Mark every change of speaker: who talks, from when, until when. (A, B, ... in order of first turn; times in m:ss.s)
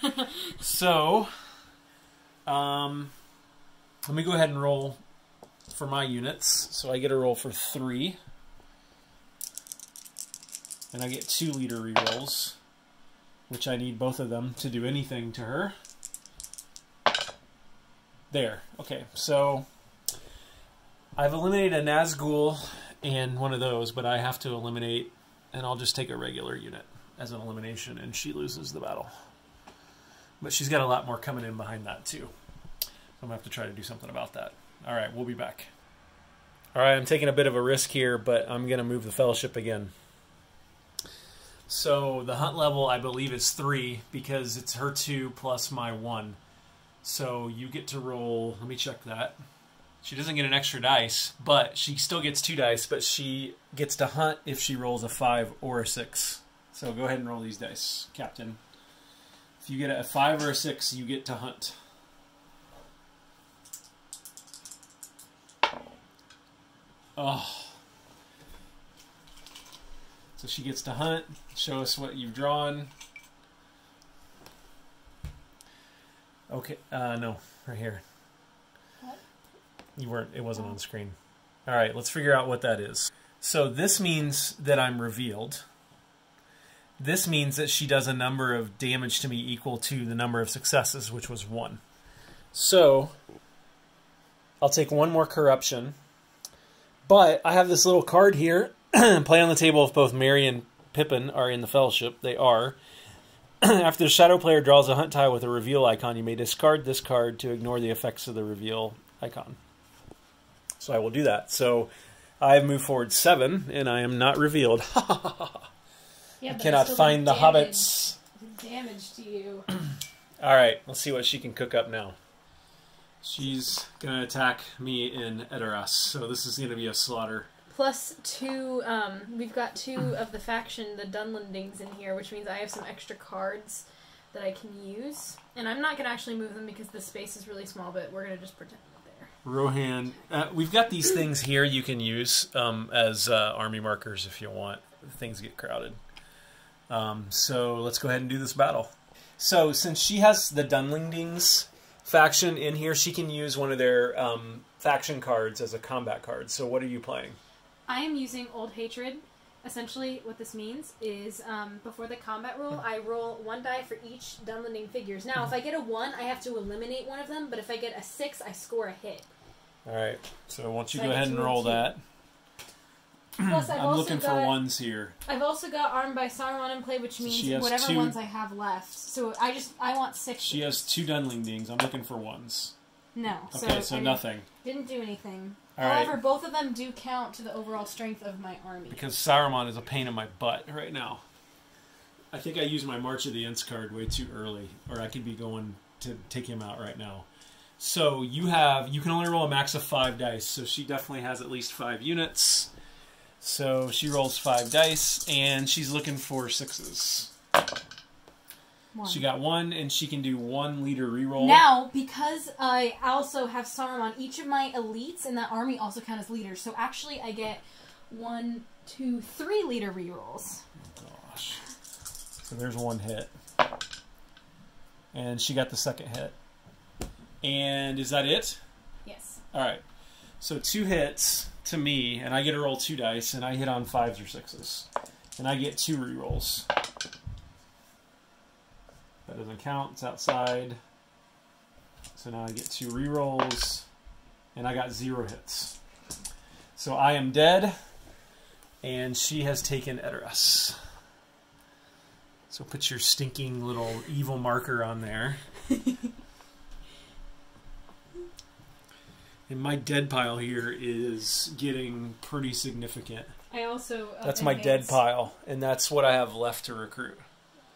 0:00.6-0:01.3 A
0:02.4-0:03.1 A
0:04.0-0:05.0 A
0:05.7-0:08.2 A
0:10.9-0:12.6 A
0:13.5-0:15.7 A
0:18.3-0:19.6 A
0:21.2-0:29.1 A
0:30.4-0:32.3 A
0:33.2-0:35.7 A
0:36.7-0:39.9 A
0:41.7-0:46.4 A
0:47.0-0:49.4 A
0:50.0-0:58.6 A
0:59.6-1:01.8 A
1:07.2-1:07.8 A
1:10.4-1:12.9 A
1:16.5-1:18.0 A
1:20.0-1:25.6 A
1:27.0-1:31.8 A
1:32.5-1:33.1 A
1:34.6-1:35.9 A
1:37.1-1:42.8 A
1:43.6-1:49.6 A
1:50.8-1:55.7 A
1:56.4-1:59.7 B
1:56.5-1:58.2 A
2:00.4-2:02.2 A
2:03.2-2:07.5 A
2:07.7-2:19.3 B
2:19.4-2:26.0 A
2:26.9-2:37.4 A
2:37.9-2:49.3 B
2:49.8-2:52.0 A
2:50.9-2:51.9 B
2:53.4-2:55.1 A
2:53.4-2:54.6 B
2:55.2-3:00.8 B
2:57.2-2:58.1 A
3:00.4-3:02.7 A
3:03.1-3:09.0 B
3:03.5-3:04.5 A
3:05.8-3:06.2 A
3:08.9-3:11.2 A
3:12.3-3:17.3 A
3:17.8-3:22.7 A
3:23.4-3:27.3 A
3:28.9-3:29.2 B
3:29.0-3:31.6 A
3:31.4-3:40.6 B
3:40.9-3:41.6 A
3:42.5-3:43.3 A
3:45.1-3:46.3 A
3:47.4-3:48.6 A
3:49.0-3:49.4 B
3:49.5-3:49.8 A
3:50.4-3:56.7 A
3:59.2-4:00.8 A
4:02.2-4:03.8 A
4:04.5-4:05.8 A
4:06.8-4:07.8 A
4:08.8-4:10.8 A
4:12.5-4:15.4 A
4:19.5-4:23.3 A
4:23.5-4:25.0 B
4:24.2-4:27.2 A